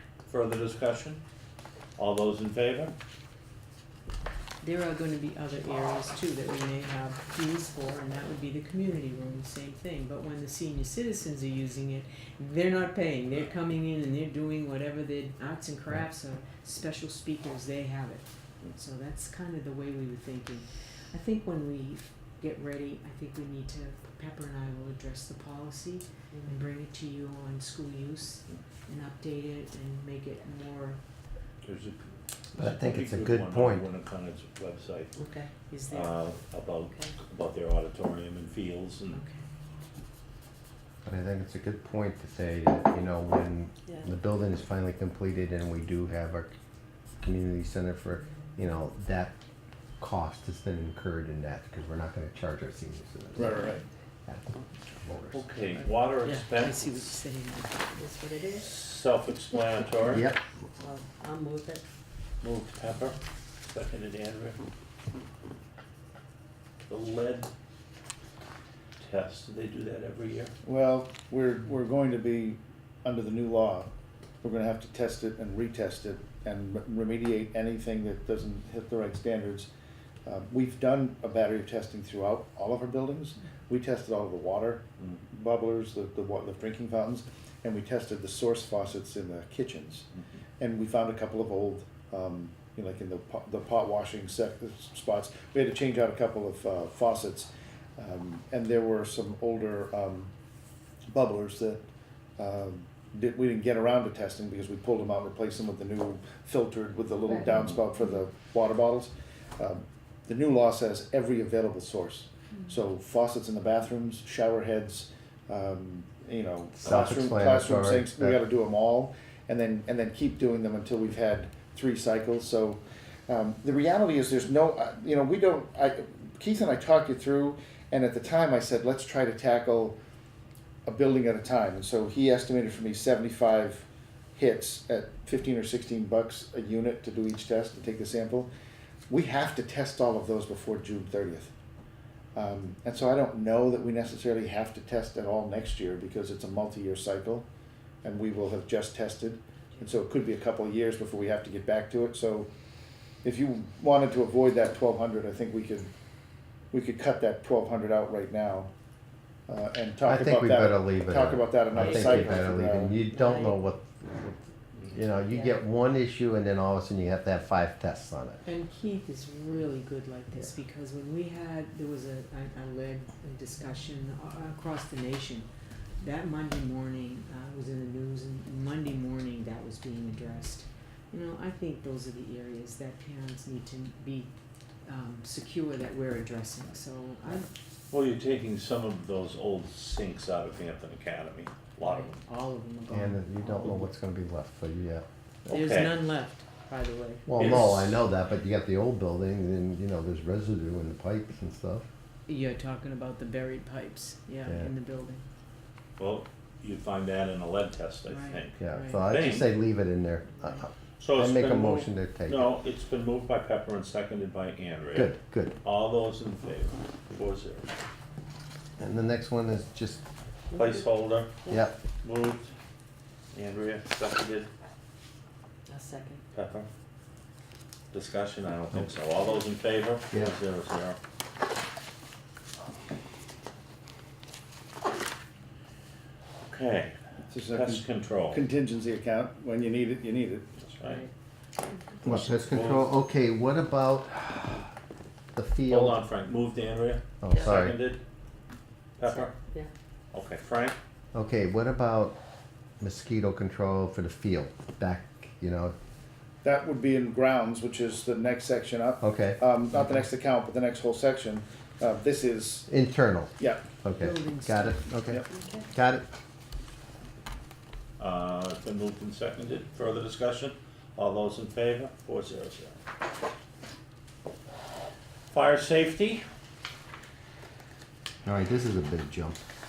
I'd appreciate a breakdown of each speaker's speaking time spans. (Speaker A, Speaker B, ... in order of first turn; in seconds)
Speaker A: 0.3-1.2, 2.0-2.9, 31.6-32.0, 32.5-35.2, 35.9-39.2, 55.3-57.1, 58.5-60.2, 62.4-64.6, 66.9-67.5, 69.0-70.5, 187.9-192.2, 195.5-196.0, 197.3-198.0, 206.0-209.5, 211.0-217.7, 220.5-221.3, 222.0-222.5, 223.3-224.5, 226.3-226.7, 227.9-231.0, 236.4-236.9, 237.5-238.4, 240.7-241.1, 242.0-242.9, 245.7-248.0, 249.0-249.3, 250.1-250.8, 268.0-272.8, 275.3-276.2
Speaker B: 4.6-31.0, 35.7-36.1, 39.1-39.4, 56.1-58.0, 168.4-175.5, 176.0-184.3, 184.8-187.5, 191.8-193.9, 195.5-197.6, 202.3-205.2, 208.1-209.0, 210.4-210.7, 263.9-264.9
Speaker C: 32.5-33.9, 41.0-46.5, 47.2-49.3, 50.0-53.7, 54.3-55.5, 60.0-60.4, 116.8-118.4, 160.0-168.4, 192.9-195.1, 197.3-201.9, 204.4-204.7, 208.6-212.5, 214.9-215.6, 218.8-220.0, 221.5-221.8, 242.0-244.7, 245.3-246.0, 247.2-247.8, 251.1-252.2, 252.8-255.8, 259.0-259.4, 262.7-266.1, 278.2-279.4
Speaker D: 35.1-35.5, 57.9-58.7, 60.8-61.8, 161.8-162.4, 163.0-163.6, 165.2-165.6, 220.5-220.9, 225.7-226.2, 247.3-247.6, 249.1-249.7, 265.3-265.6
Speaker E: 53.4-53.8, 70.6-73.9, 74.4-79.7, 80.2-90.1, 90.6-100.3, 101.1-101.8, 102.4-130.0, 130.8-138.5, 139.1-141.5, 142.3-147.4, 148.0-152.5, 153.2-155.9, 156.7-158.7, 159.5-163.0, 237.3-240.6, 256.4-262.7, 263.4-263.6